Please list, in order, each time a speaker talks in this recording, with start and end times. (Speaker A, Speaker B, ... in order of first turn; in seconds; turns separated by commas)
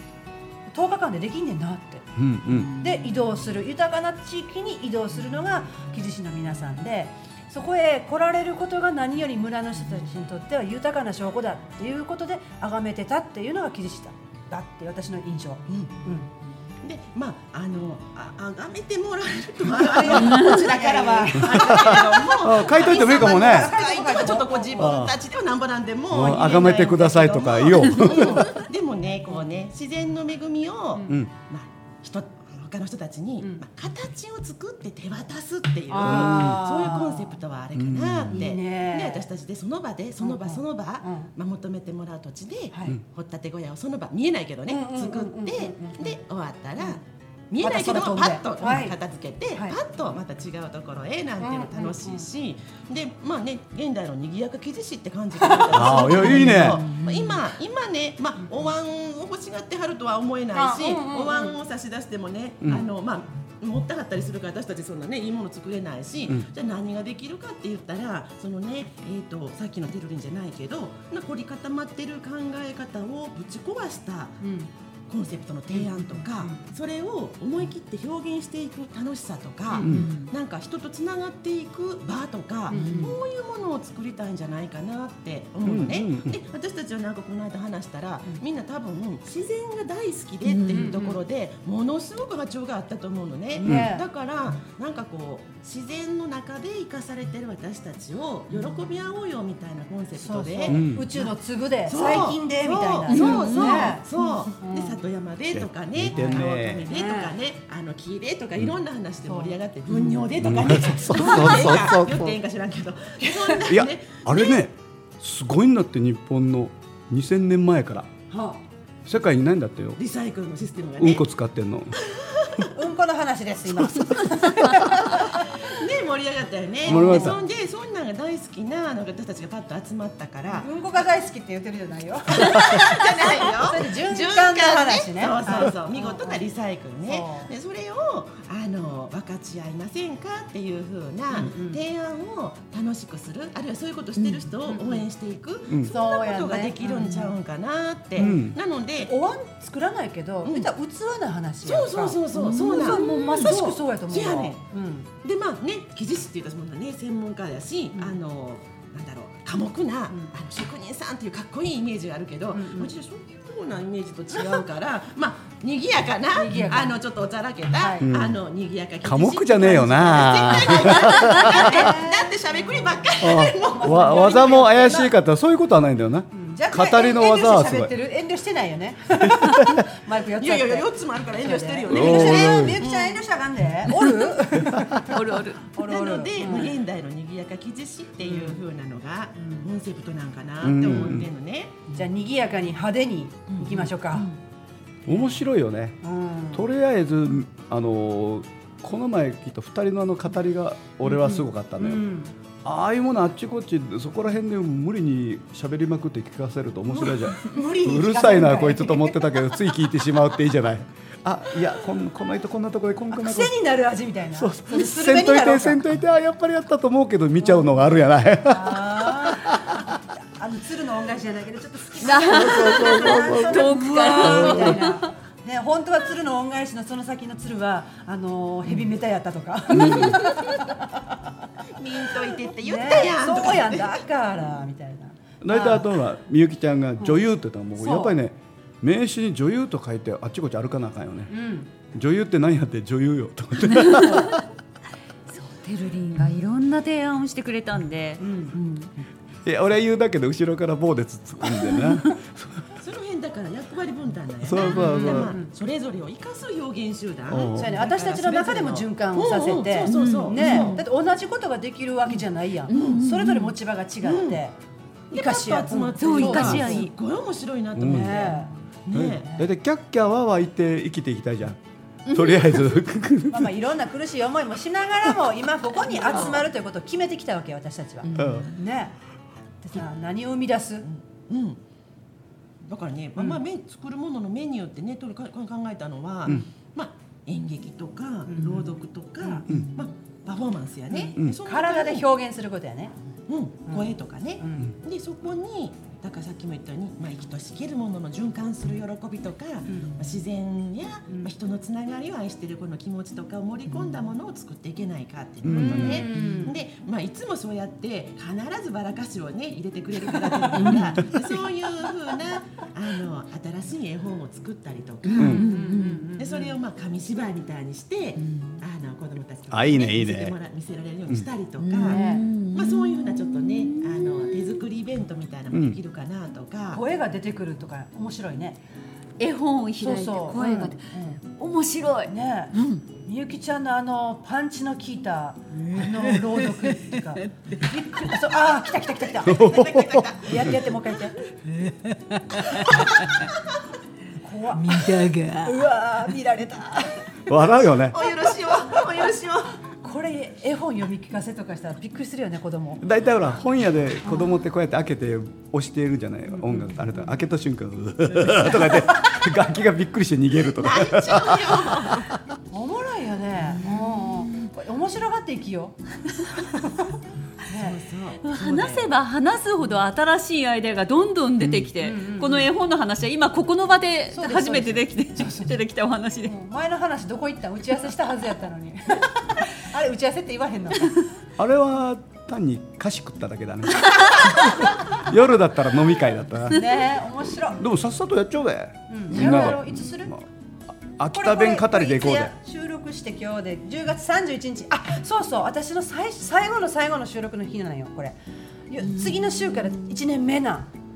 Speaker A: 0.7-2.1, Speaker B: 2.2-2.7, Speaker C: 2.5-3.1, Speaker A: 2.8-16.3, Speaker D: 15.7-15.9, Speaker D: 16.8-74.4, Speaker A: 19.7-25.0, Speaker C: 20.1-20.6, Speaker B: 21.4-23.8, Speaker B: 24.8-25.1, Speaker B: 26.1-28.6, Speaker A: 35.9-37.4, Speaker B: 36.0-36.7, Speaker B: 37.8-38.4, Speaker A: 38.3-39.3, Speaker A: 40.2-41.3, Speaker A: 42.7-43.0, Speaker A: 44.7-46.2, Speaker A: 47.6-49.0, Speaker A: 49.5-49.8, Speaker A: 51.4-52.3, Speaker A: 55.4-56.2, Speaker B: 55.7-56.8, Speaker C: 56.2-57.4, Speaker A: 60.5-61.6, Speaker A: 74.4-74.7, Speaker D: 75.1-101.3, Speaker A: 75.7-76.6, Speaker A: 79.7-80.0, Speaker C: 79.8-80.3, Speaker B: 79.8-80.1, Speaker A: 82.7-83.2, Speaker C: 82.7-83.2, Speaker B: 85.6-86.4, Speaker C: 90.4-91.0, Speaker A: 90.7-91.2, Speaker A: 93.5-94.1, Speaker B: 93.7-93.9, Speaker A: 100.2-105.0, Speaker B: 100.7-101.1, Speaker D: 101.9-114.6, Speaker C: 103.1-104.3, Speaker B: 105.5-106.9, Speaker A: 106.1-107.3, Speaker A: 109.2-109.6, Speaker C: 109.9-110.2, Speaker B: 110.4-112.4, Speaker A: 113.2-113.6, Speaker B: 113.7-118.1, Speaker A: 118.3-118.6, Speaker B: 119.0-120.0, Speaker D: 120.0-121.2, Speaker B: 121.0-122.0, Speaker D: 122.0-122.7, Speaker A: 122.7-125.5, Speaker B: 123.7-124.9, Speaker D: 125.1-130.7, Speaker B: 126.8-127.4, Speaker A: 126.9-127.4, Speaker A: 130.5-136.4, Speaker D: 132.3-149.1, Speaker A: 137.0-137.5, Speaker A: 141.3-141.8, Speaker C: 144.2-144.5, Speaker A: 144.7-145.1, Speaker A: 145.8-147.3, Speaker C: 147.0-147.3, Speaker B: 148.2-148.6, Speaker A: 149.0-155.1, Speaker D: 150.4-150.7, Speaker D: 151.6-154.6, Speaker C: 152.3-153.6, Speaker D: 155.2-175.1, Speaker A: 162.5-162.9, Speaker A: 164.3-164.7, Speaker A: 166.3-167.0, Speaker A: 167.8-168.1, Speaker B: 168.0-168.4, Speaker B: 169.0-171.8, Speaker A: 171.3-175.0, Speaker B: 173.2-177.9, Speaker A: 176.3-186.7, Speaker B: 179.2-179.8, Speaker D: 180.4-183.2, Speaker B: 181.9-182.8, Speaker C: 185.1-185.7, Speaker D: 185.8-191.8, Speaker A: 188.2-188.6, Speaker A: 189.4-189.7, Speaker B: 190.6-191.3, Speaker A: 190.8-191.2, Speaker A: 191.9-194.3, Speaker D: 193.5-193.9, Speaker B: 195.1-196.0, Speaker A: 195.1-195.4, Speaker A: 196.0-196.7, Speaker B: 196.5-202.0, Speaker A: 201.1-202.3, Speaker B: 202.6-213.5, Speaker A: 206.9-209.5, Speaker A: 213.2-215.8, Speaker B: 214.3-219.9, Speaker A: 217.4-217.7, Speaker A: 218.4-231.2, Speaker C: 222.0-225.1, Speaker B: 222.2-224.8, Speaker B: 229.7-230.2, Speaker C: 229.7-230.6, Speaker D: 231.7-234.0, Speaker A: 232.2-235.9, Speaker B: 235.4-241.3, Speaker A: 237.8-238.2, Speaker A: 241.3-241.7, Speaker B: 241.9-244.4, Speaker C: 243.7-244.4, Speaker C: 245.3-249.1, Speaker A: 248.2-248.6, Speaker B: 249.4-252.7, Speaker D: 252.8-260.8, Speaker B: 254.4-255.4, Speaker A: 254.7-255.5, Speaker B: 257.3-257.8, Speaker A: 257.5-264.6, Speaker C: 259.9-260.8, Speaker C: 262.7-263.6, Speaker D: 262.7-263.0, Speaker D: 264.0-264.4, Speaker A: 265.1-266.9, Speaker D: 265.1-269.3, Speaker C: 266.0-266.9, Speaker B: 267.8-268.2, Speaker A: 267.8-268.5, Speaker B: 268.9-273.5, Speaker C: 272.1-272.7, Speaker A: 273.3-279.0, Speaker D: 275.9-276.5, Speaker C: 278.0-278.4, Speaker B: 278.1-278.5, Speaker A: 279.6-280.9, Speaker D: 280.9-281.6, Speaker D: 282.6-292.1, Speaker A: 288.3-289.4, Speaker C: 289.5-289.9, Speaker A: 290.9-292.9, Speaker D: 293.3-315.6, Speaker A: 293.7-294.7, Speaker A: 299.7-299.9, Speaker B: 305.4-306.2, Speaker A: 305.5-306.6, Speaker C: 310.5-311.1, Speaker C: 315.1-316.1, Speaker A: 315.2-316.6, Speaker B: 315.2-315.4, Speaker D: 316.2-326.8, Speaker C: 318.2-318.6, Speaker B: 319.5-320.4, Speaker C: 321.6-324.6, Speaker A: 321.8-322.3, Speaker B: 325.5-325.8, Speaker A: 326.7-328.6, Speaker C: 329.2-332.8, Speaker A: 329.8-331.2, Speaker A: 332.1-339.6, Speaker C: 335.6-337.7, Speaker D: 339.2-340.7, Speaker B: 339.2-340.6, Speaker A: 340.2-341.2, Speaker C: 341.5-343.0, Speaker A: 344.2-347.4, Speaker C: 344.6-345.6, Speaker B: 347.3-348.0, Speaker D: 347.8-349.6, Speaker A: 349.8-352.8, Speaker B: 352.8-362.0, Speaker D: 360.5-362.1, Speaker A: 362.5-365.8, Speaker C: 363.5-364.5, Speaker A: 366.3-367.8, Speaker D: 367.5-368.9, Speaker C: 368.2-376.3, Speaker A: 371.8-372.5, Speaker A: 374.1-375.6, Speaker A: 376.2-381.0, Speaker B: 381.4-386.8, Speaker A: 386.5-387.6, Speaker B: 387.5-390.2, Speaker A: 388.9-390.1, Speaker C: 389.2-389.5, Speaker B: 391.0-392.3, Speaker A: 391.1-398.2, Speaker A: 398.7-400.7, Speaker C: 398.8-399.9